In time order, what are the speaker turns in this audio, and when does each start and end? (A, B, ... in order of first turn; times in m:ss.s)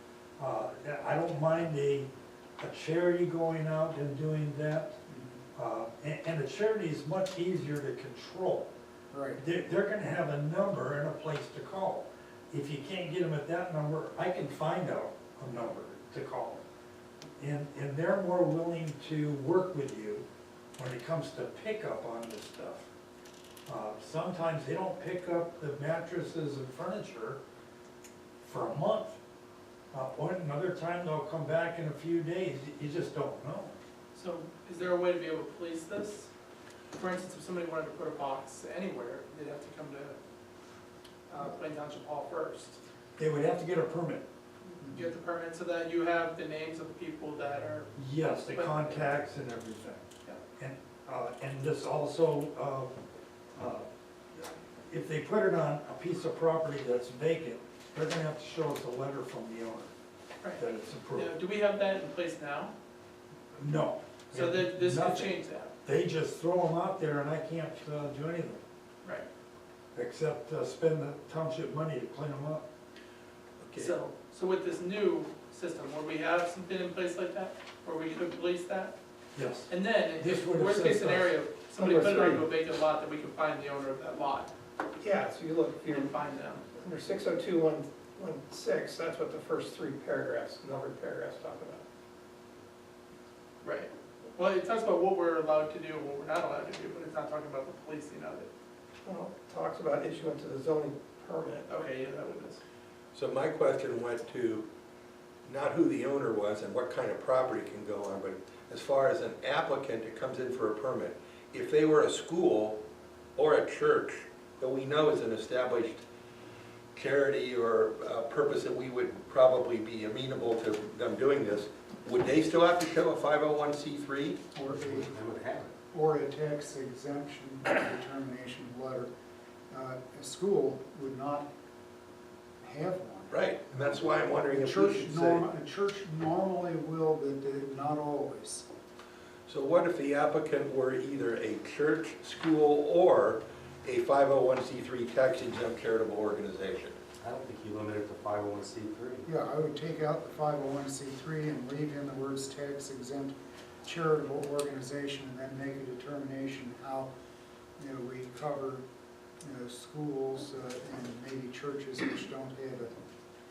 0:00.4-0:02.1 A
0:02.6-0:05.0 A
0:05.1-0:05.4 B
0:05.5-0:08.7 A
0:09.1-0:09.4 B
0:09.4-0:16.6 A
0:17.4-0:20.2 A
0:20.8-0:22.9 A
0:23.7-0:27.4 A
0:28.4-0:29.2 A
0:29.9-0:33.8 A
0:34.1-0:36.3 C
0:36.9-0:40.2 C
0:41.3-0:42.8 C
0:43.2-0:44.2 A
0:44.7-0:49.1 C
0:47.9-0:50.0 A
0:50.6-0:53.0 A
0:53.5-0:59.9 A
1:00.6-1:01.3 A
1:01.1-1:02.7 C
1:03.6-1:08.6 A
1:04.3-1:05.7 C
1:09.9-1:12.6 A
1:13.6-1:14.0 D
1:13.8-1:18.9 C
1:19.4-1:21.3 A
1:19.7-1:24.5 C
1:21.8-1:22.4 E
1:25.0-1:26.1 E
1:25.9-1:26.6 C
1:26.7-1:31.8 E
1:33.6-1:38.5 C
1:39.0-1:41.7 E
1:41.7-1:42.6 C
1:43.1-1:44.7 D
1:45.4-1:52.8 D
1:53.4-1:56.0 D
1:56.9-2:04.4 D
2:04.5-2:05.1 B
2:04.7-2:05.7 F
2:05.9-2:09.1 B
2:09.7-2:11.5 B
2:12.6-2:18.7 B
2:13.3-2:15.5 D
2:19.5-2:27.0 D
2:27.2-2:29.3 F
2:29.2-2:37.1 B
2:37.8-2:38.8 B
2:39.4-2:42.9 B